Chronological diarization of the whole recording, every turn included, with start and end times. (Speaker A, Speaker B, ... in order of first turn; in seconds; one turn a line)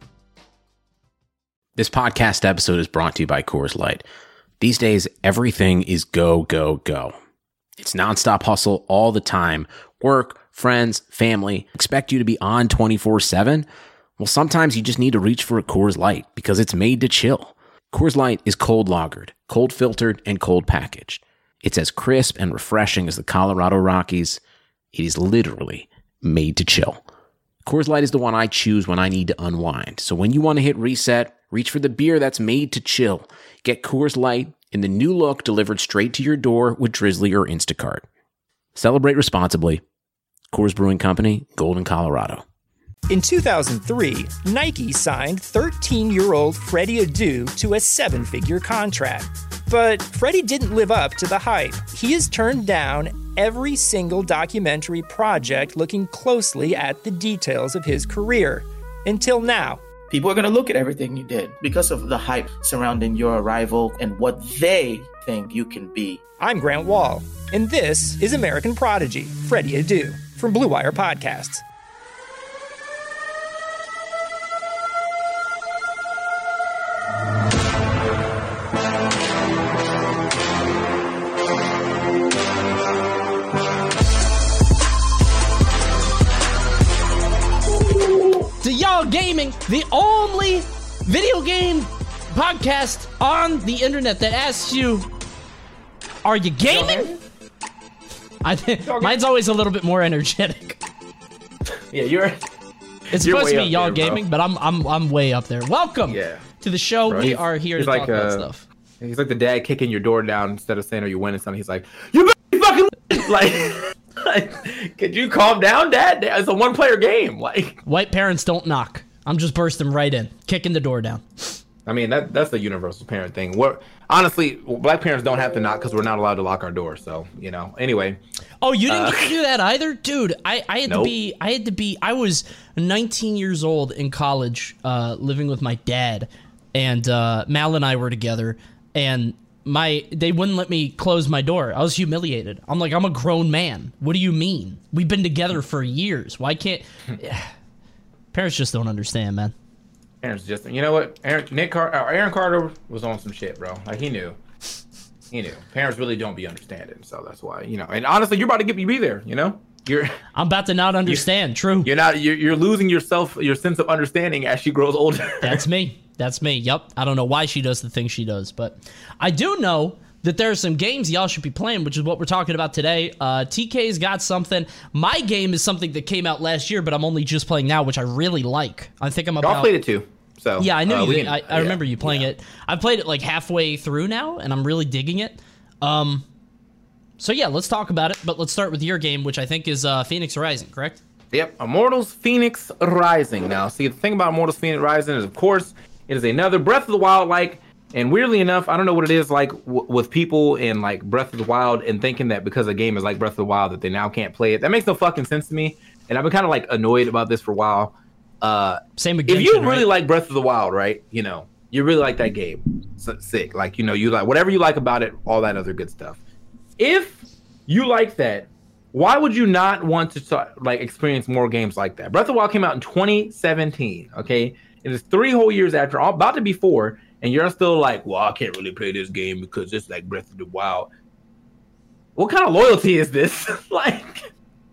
Speaker A: 1.8-4.0
Speaker A: 4.6-7.1
Speaker A: 7.8-24.4
Speaker A: 24.9-27.0
Speaker A: 27.6-38.0
Speaker A: 38.7-39.8
Speaker A: 40.5-42.4
Speaker B: 43.1-59.8
Speaker C: 60.1-66.2
Speaker B: 66.4-71.6
Speaker D: 88.0-88.5
Speaker E: 88.6-95.1
Speaker E: 96.2-97.1
Speaker D: 96.7-97.2
Speaker E: 98.4-100.8
Speaker D: 98.8-99.2
Speaker D: 101.9-102.4
Speaker E: 103.1-108.6
Speaker D: 103.2-104.2
Speaker D: 106.0-106.4
Speaker D: 107.1-108.5
Speaker D: 109.0-117.8
Speaker E: 117.8-121.6
Speaker D: 121.8-128.2
Speaker E: 128.6-147.5
Speaker D: 128.9-129.3
Speaker D: 130.9-131.1
Speaker E: 148.3-149.5
Speaker D: 150.2-154.4
Speaker D: 155.3-160.2
Speaker E: 160.3-161.9
Speaker D: 161.8-165.6
Speaker E: 165.4-179.7
Speaker D: 179.4-182.3
Speaker E: 180.6-186.2
Speaker E: 187.2-191.0
Speaker D: 191.3-216.2
Speaker E: 209.0-209.9
Speaker D: 216.8-230.9
Speaker D: 232.2-234.3